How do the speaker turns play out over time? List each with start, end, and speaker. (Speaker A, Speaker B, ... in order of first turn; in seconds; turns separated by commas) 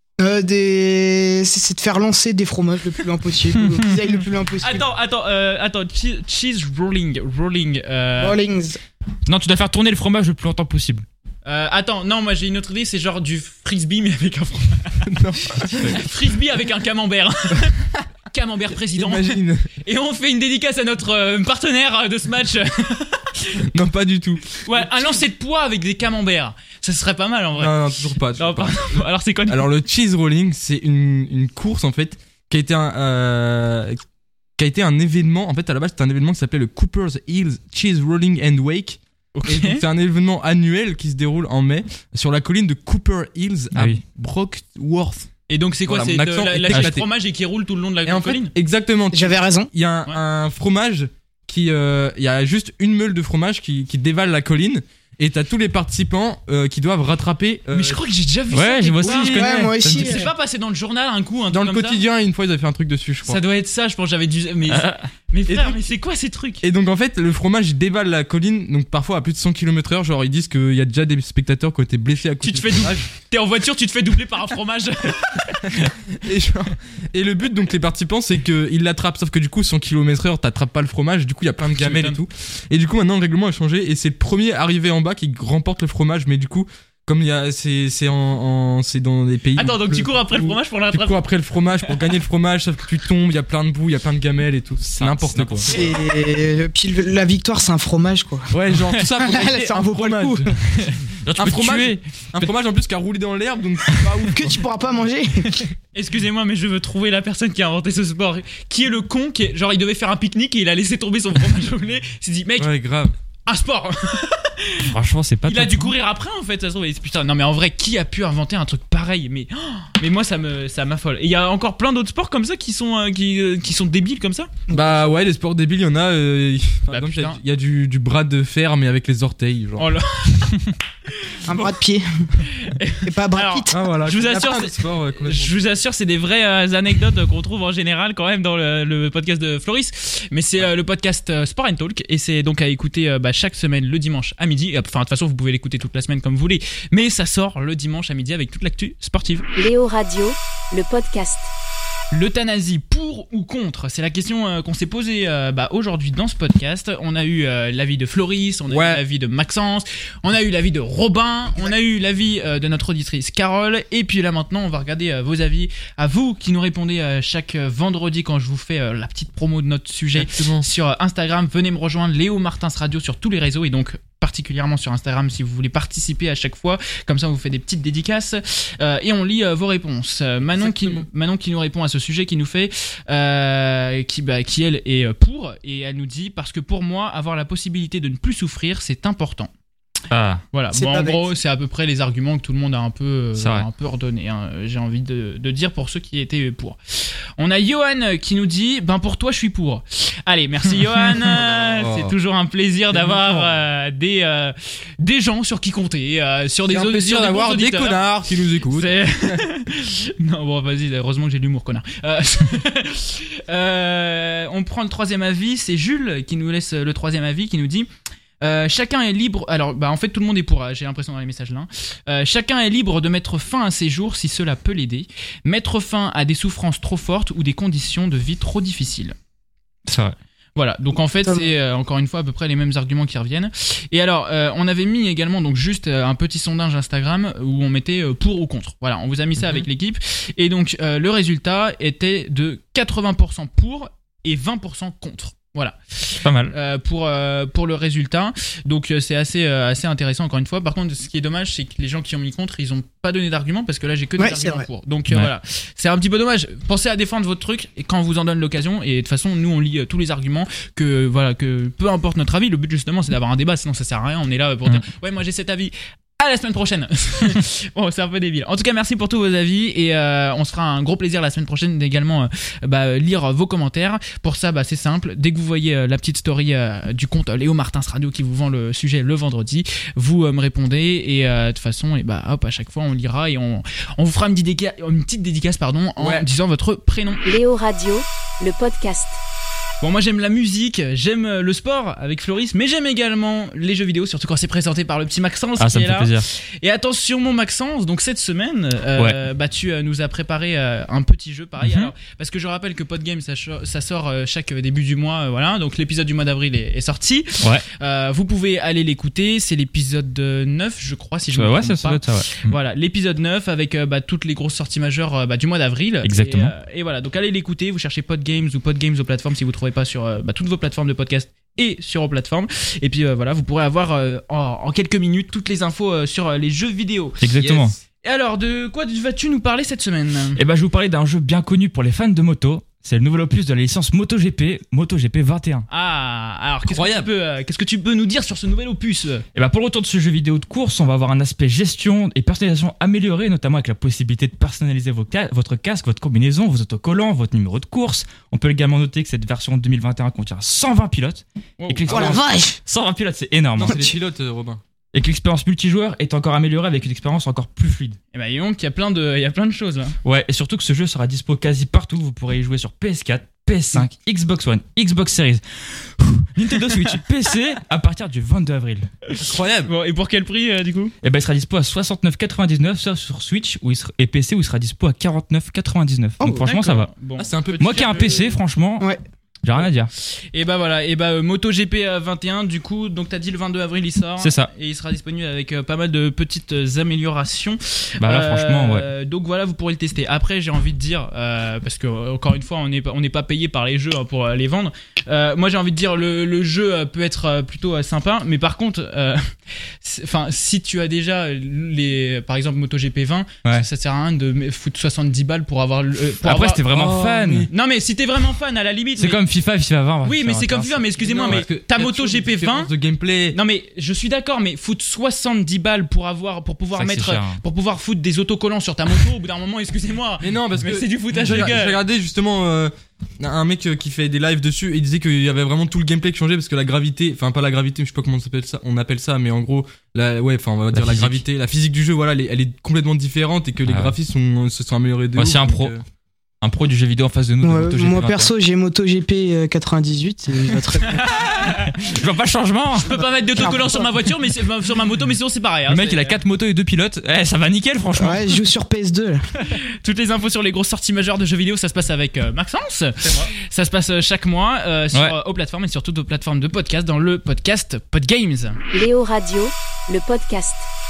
Speaker A: 0.2-4.8, Speaker B: 4.6-8.4, Speaker A: 8.2-8.8, Speaker C: 9.3-11.1, Speaker B: 11.4-15.1, Speaker D: 15.0-16.1, Speaker B: 15.6-23.6, Speaker D: 18.9-19.7, Speaker D: 23.7-24.9, Speaker B: 24.6-27.8, Speaker D: 27.6-34.0, Speaker B: 28.4-29.6, Speaker D: 34.6-45.3, Speaker B: 39.3-39.8, Speaker C: 43.7-44.0, Speaker B: 45.5-48.5, Speaker D: 45.9-47.1, Speaker D: 48.0-58.0, Speaker A: 49.1-49.7, Speaker B: 57.7-62.0, Speaker C: 58.5-60.2, Speaker A: 59.1-60.3, Speaker D: 61.5-63.4, Speaker B: 63.2-66.6, Speaker C: 64.7-65.1, Speaker D: 65.5-65.8, Speaker D: 66.6-73.1, Speaker B: 72.4-75.7, Speaker D: 76.1-95.8, Speaker B: 81.7-82.2, Speaker B: 89.5-91.2, Speaker C: 95.0-95.7, Speaker A: 95.7-98.5, Speaker D: 98.5-100.5, Speaker A: 99.1-100.5, Speaker C: 101.2-102.5, Speaker D: 101.4-104.6, Speaker A: 104.0-105.6, Speaker B: 105.9-112.7, Speaker D: 112.6-113.1, Speaker B: 113.5-114.9, Speaker C: 114.8-115.9, Speaker B: 115.5-124.5, Speaker A: 124.7-125.1, Speaker D: 124.7-129.9, Speaker B: 126.9-127.4, Speaker B: 129.8-130.6, Speaker A: 131.4-132.3, Speaker B: 132.5-149.4, Speaker A: 133.0-133.9, Speaker D: 133.7-135.6, Speaker E: 149.5-151.5, Speaker B: 152.1-189.5, Speaker D: 158.7-159.0, Speaker D: 170.2-170.7, Speaker D: 180.6-181.0, Speaker C: 190.1-190.4, Speaker B: 190.5-217.9, Speaker A: 190.7-191.3, Speaker C: 193.4-193.7, Speaker D: 201.1-202.1, Speaker D: 202.9-203.5, Speaker D: 206.7-209.4, Speaker B: 218.4-229.1, Speaker C: 229.9-230.1, Speaker B: 230.6-287.2, Speaker A: 231.2-231.5, Speaker C: 246.2-246.5, Speaker A: 254.2-254.7, Speaker D: 286.0-286.2, Speaker E: 287.2-289.2, Speaker B: 289.8-327.2, Speaker C: 295.6-296.2, Speaker C: 301.6-301.9, Speaker C: 311.3-312.6, Speaker C: 316.0-316.5, Speaker C: 327.2-327.7, Speaker D: 327.3-327.8, Speaker B: 328.0-330.4, Speaker C: 330.4-335.7, Speaker B: 335.7-339.2, Speaker D: 336.6-337.1, Speaker C: 339.3-353.8, Speaker B: 351.6-352.2, Speaker A: 351.9-352.6, Speaker D: 353.6-354.6, Speaker A: 353.6-353.9, Speaker C: 354.9-358.0, Speaker B: 358.1-359.9, Speaker C: 360.0-368.9, Speaker B: 369.1-370.9, Speaker D: 369.2-369.7, Speaker C: 371.0-376.9, Speaker B: 376.4-378.3, Speaker D: 377.2-378.3, Speaker C: 377.6-378.9, Speaker C: 379.4-379.9, Speaker B: 380.3-399.3, Speaker C: 384.2-384.5, Speaker C: 388.0-388.9, Speaker B: 399.8-406.6, Speaker C: 406.2-407.5, Speaker A: 406.8-407.4, Speaker B: 407.5-409.2, Speaker C: 409.0-411.4, Speaker B: 410.0-412.7, Speaker D: 411.0-413.4, Speaker B: 413.3-421.8, Speaker C: 416.7-417.4, Speaker D: 420.2-435.8, Speaker C: 430.7-431.2, Speaker C: 433.7-433.9, Speaker C: 435.1-435.7, Speaker C: 436.4-438.3, Speaker A: 437.4-441.0, Speaker C: 440.5-443.0, Speaker B: 440.8-441.8, Speaker B: 442.8-446.2, Speaker A: 443.3-444.1, Speaker C: 445.7-448.4, Speaker A: 447.9-449.2, Speaker B: 449.5-458.6, Speaker E: 458.7-460.7